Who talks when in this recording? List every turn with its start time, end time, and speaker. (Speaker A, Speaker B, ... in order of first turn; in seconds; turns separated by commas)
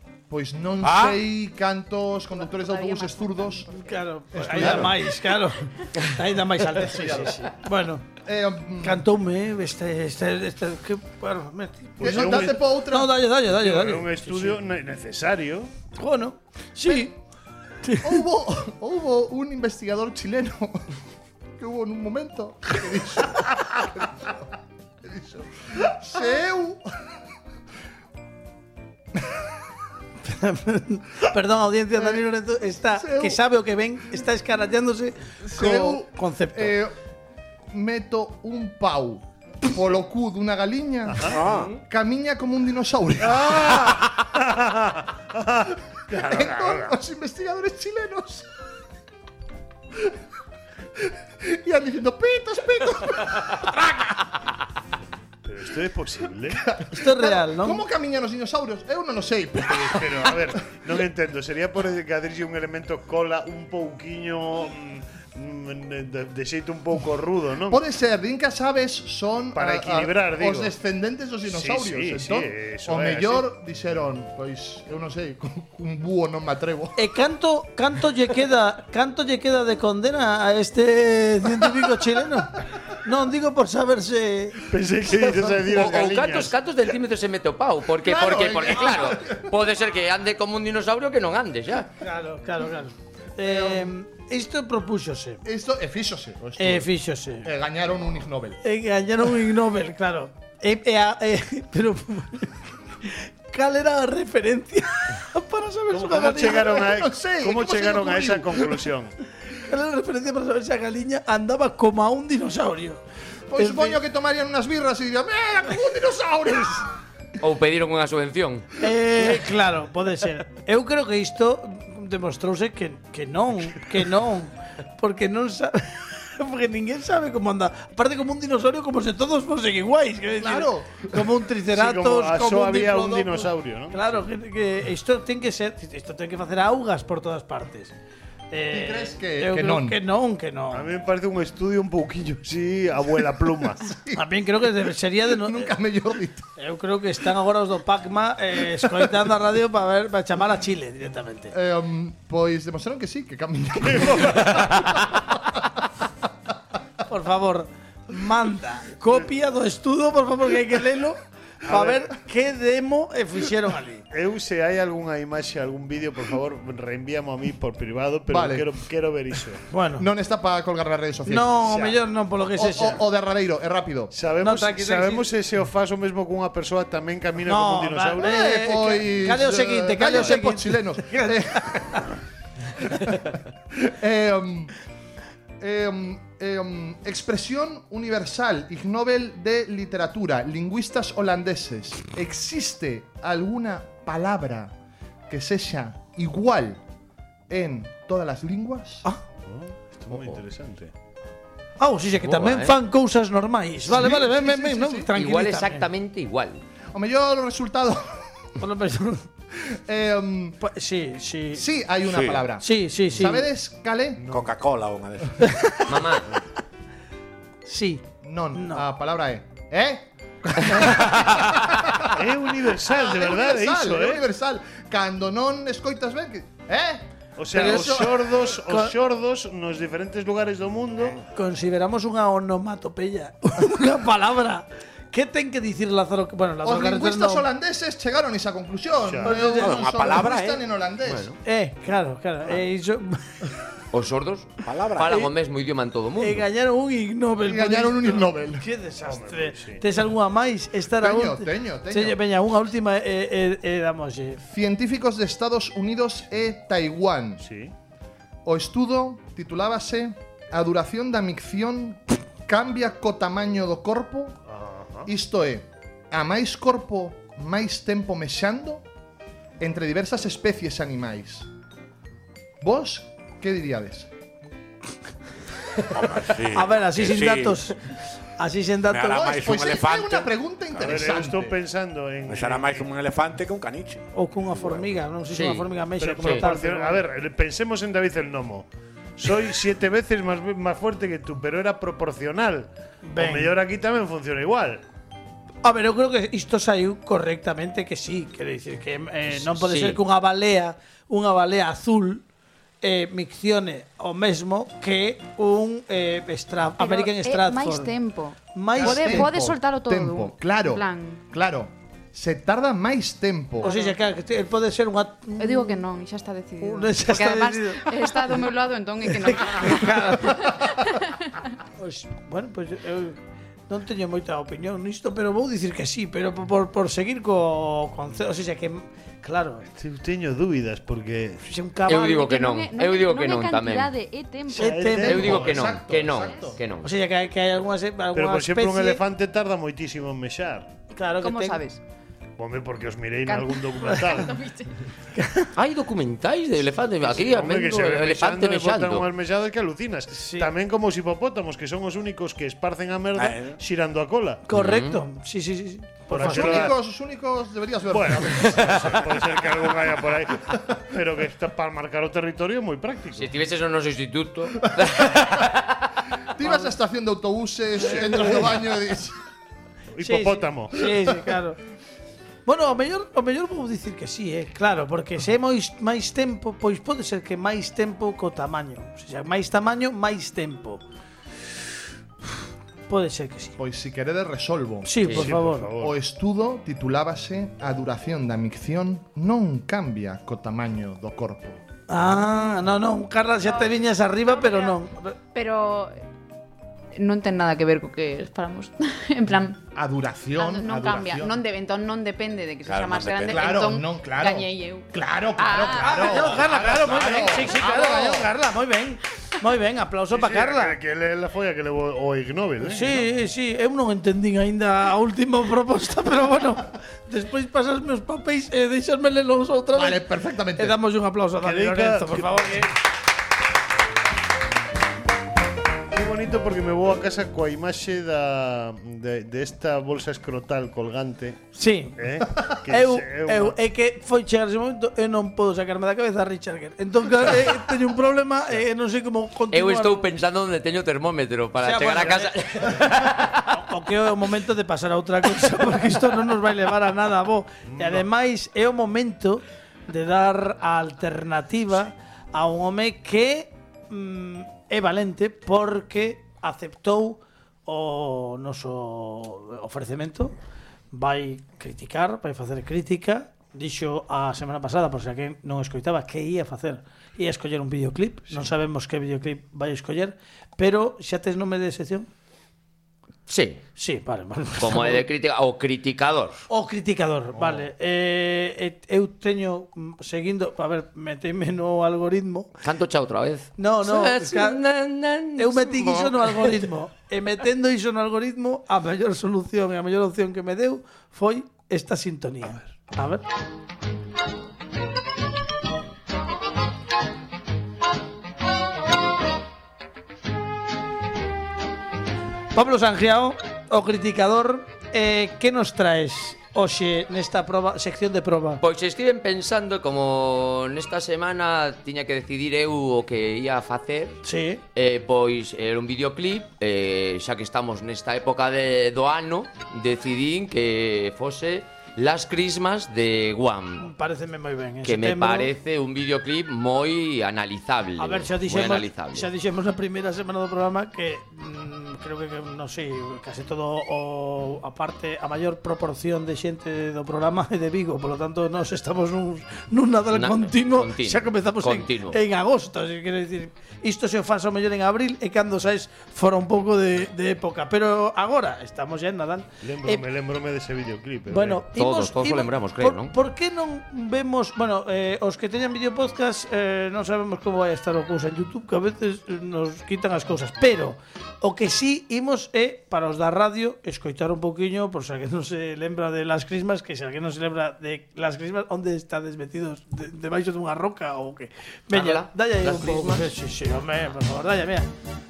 Speaker A: 0.3-3.7, Speaker B: 0.8-1.2, Speaker C: 2.3-4.1, Speaker D: 3.9-8.1, Speaker A: 4.3-5.0, Speaker A: 6.8-7.5, Speaker A: 8.2-9.1, Speaker D: 8.8-14.6, Speaker A: 12.0-13.1, Speaker E: 12.0-12.6, Speaker E: 13.5-15.7, Speaker D: 16.0-17.1, Speaker D: 17.8-18.2, Speaker A: 18.0-20.9, Speaker A: 21.6-24.4, Speaker A: 25.0-26.9, Speaker D: 30.2-36.8, Speaker A: 32.0-32.2, Speaker A: 33.0-33.4, Speaker A: 35.4-36.9, Speaker A: 37.7-43.6, Speaker B: 41.2-41.8, Speaker E: 43.2-46.9, Speaker A: 46.1-48.5, Speaker A: 51.0-53.8, Speaker E: 55.4-56.7, Speaker A: 56.5-60.6, Speaker D: 56.9-57.8, Speaker E: 59.7-67.8, Speaker A: 67.7-77.0, Speaker E: 69.5-70.7, Speaker E: 71.5-73.5, Speaker D: 77.0-84.7, Speaker E: 84.7-86.5, Speaker F: 85.6-91.9, Speaker A: 88.0-89.6, Speaker D: 92.0-95.4, Speaker A: 93.4-93.9, Speaker A: 95.5-96.9, Speaker D: 96.6-97.5, Speaker A: 97.4-98.6, Speaker D: 98.6-106.8, Speaker E: 105.9-109.1, Speaker A: 106.1-108.9, Speaker D: 109.5-113.0, Speaker A: 113.5-116.9, Speaker D: 113.6-114.0, Speaker F: 117.4-118.7, Speaker D: 118.8-133.1, Speaker A: 130.4-131.3, Speaker E: 131.7-134.2, Speaker A: 132.7-133.5, Speaker D: 133.9-137.9, Speaker D: 138.5-140.9, Speaker A: 138.7-140.0, Speaker E: 140.7-143.8, Speaker A: 143.8-144.2, Speaker D: 144.1-145.7, Speaker A: 145.3-146.5, Speaker D: 146.6-151.5, Speaker A: 151.5-155.8, Speaker E: 153.9-154.5, Speaker D: 157.1-164.1, Speaker E: 161.7-162.1, Speaker E: 164.1-169.6, Speaker A: 168.3-168.7, Speaker D: 169.7-170.1, Speaker A: 170.0-172.0, Speaker D: 171.3-173.0, Speaker A: 172.5-174.1, Speaker E: 174.1-178.4, Speaker D: 174.4-175.3, Speaker D: 177.5-182.2, Speaker A: 178.2-182.1, Speaker A: 182.9-184.7, Speaker A: 185.6-194.8, Speaker A: 195.3-196.8, Speaker A: 197.5-199.1, Speaker E: 199.5-200.9, Speaker A: 200.1-200.4, Speaker D: 201.8-205.9, Speaker F: 202.2-202.8, Speaker A: 203.9-205.1, Speaker F: 205.2-206.6, Speaker A: 206.9-208.5, Speaker D: 208.6-209.3, Speaker A: 209.5-210.6, Speaker D: 210.6-211.7, Speaker A: 211.5-214.2, Speaker B: 212.1-212.4, Speaker D: 212.6-213.5, Speaker E: 214.2-214.5, Speaker B: 214.3-215.8, Speaker D: 215.4-215.8, Speaker F: 215.9-216.3, Speaker D: 217.7-218.0, Speaker A: 218.2-222.2, Speaker D: 218.5-218.8, Speaker D: 220.7-221.1, Speaker E: 222.0-224.2, Speaker A: 222.8-228.1, Speaker E: 227.4-231.2, Speaker D: 227.6-228.9, Speaker D: 231.3-237.5, Speaker A: 236.6-241.3, Speaker E: 239.1-239.4, Speaker D: 239.3-239.7, Speaker B: 239.6-240.6, Speaker F: 241.1-241.4, Speaker D: 241.4-243.6, Speaker F: 243.9-246.4, Speaker B: 244.6-245.3, Speaker D: 246.2-254.4, Speaker A: 247.4-248.7, Speaker E: 249.1-249.8, Speaker A: 251.0-252.2, Speaker A: 254.4-257.4, Speaker E: 257.4-257.7, Speaker A: 258.4-264.4, Speaker E: 264.5-265.1, Speaker A: 265.1-268.9, Speaker A: 269.6-271.5, Speaker A: 272.6-274.1, Speaker B: 275.9-277.6, Speaker D: 276.5-279.4, Speaker B: 278.9-281.0, Speaker A: 279.2-281.6, Speaker E: 280.8-282.9, Speaker B: 282.3-284.9, Speaker D: 284.1-287.0, Speaker F: 285.3-285.7, Speaker E: 286.0-288.7, Speaker E: 289.2-294.8, Speaker D: 293.0-293.5, Speaker D: 295.6-302.2, Speaker F: 299.5-300.0, Speaker D: 302.8-307.9, Speaker C: 306.8-311.2, Speaker D: 308.5-309.3, Speaker A: 308.8-313.7, Speaker C: 313.6-314.0, Speaker D: 313.6-315.8, Speaker C: 315.4-321.4, Speaker D: 316.6-318.3, Speaker D: 319.1-320.6, Speaker D: 321.8-329.7, Speaker E: 329.8-331.4, Speaker D: 331.4-332.4, Speaker F: 331.9-333.9, Speaker C: 332.1-335.1, Speaker D: 334.5-335.4, Speaker E: 334.6-335.8, Speaker A: 335.0-336.6, Speaker F: 335.1-336.9, Speaker C: 336.2-336.5, Speaker D: 336.8-339.0, Speaker E: 338.1-340.7, Speaker C: 340.9-341.8, Speaker D: 341.0-341.6, Speaker E: 342.4-344.4, Speaker C: 343.3-344.7, Speaker D: 343.8-344.3, Speaker D: 345.1-345.5, Speaker F: 345.6-349.1, Speaker E: 347.0-354.4, Speaker D: 350.1-350.5, Speaker B: 353.2-353.6, Speaker D: 354.5-356.7, Speaker F: 354.5-355.0, Speaker E: 356.1-356.7, Speaker A: 356.1-359.7, Speaker E: 357.9-363.3, Speaker F: 363.1-365.9, Speaker A: 366.3-369.2, Speaker E: 367.8-368.4, Speaker E: 369.9-370.9, Speaker D: 370.0-371.6, Speaker D: 372.5-380.8, Speaker D: 382.9-383.6, Speaker A: 383.6-391.6, Speaker D: 384.9-385.7, Speaker E: 385.1-385.9, Speaker D: 391.9-395.2, Speaker C: 393.4-394.8, Speaker C: 395.3-396.0, Speaker C: 396.9-399.6, Speaker A: 399.8-401.4, Speaker C: 400.4-406.5, Speaker B: 402.6-403.6, Speaker A: 403.3-408.3, Speaker D: 405.8-410.8, Speaker C: 407.1-407.7, Speaker E: 410.1-413.0, Speaker D: 412.6-420.0, Speaker A: 419.7-420.8, Speaker D: 420.6-422.7, Speaker E: 421.4-422.7, Speaker E: 425.9-431.5, Speaker D: 431.6-432.0, Speaker E: 432.0-433.6, Speaker D: 432.7-440.1, Speaker F: 439.5-443.6, Speaker D: 441.6-460.3, Speaker E: 447.7-448.0, Speaker D: 460.9-472.1, Speaker F: 473.3-473.6, Speaker D: 473.8-475.1, Speaker F: 474.6-476.4, Speaker D: 476.5-482.6, Speaker E: 477.4-477.7, Speaker F: 482.6-486.7, Speaker D: 483.6-484.6, Speaker D: 485.4-493.2, Speaker D: 502.5-508.6, Speaker F: 508.6-514.2, Speaker D: 514.2-514.6, Speaker F: 514.8-523.9, Speaker D: 523.8-525.5, Speaker F: 524.8-529.3, Speaker D: 528.0-550.0, Speaker F: 540.1-542.2, Speaker E: 549.6-551.6, Speaker D: 551.3-574.9, Speaker F: 551.7-553.1, Speaker F: 571.9-573.3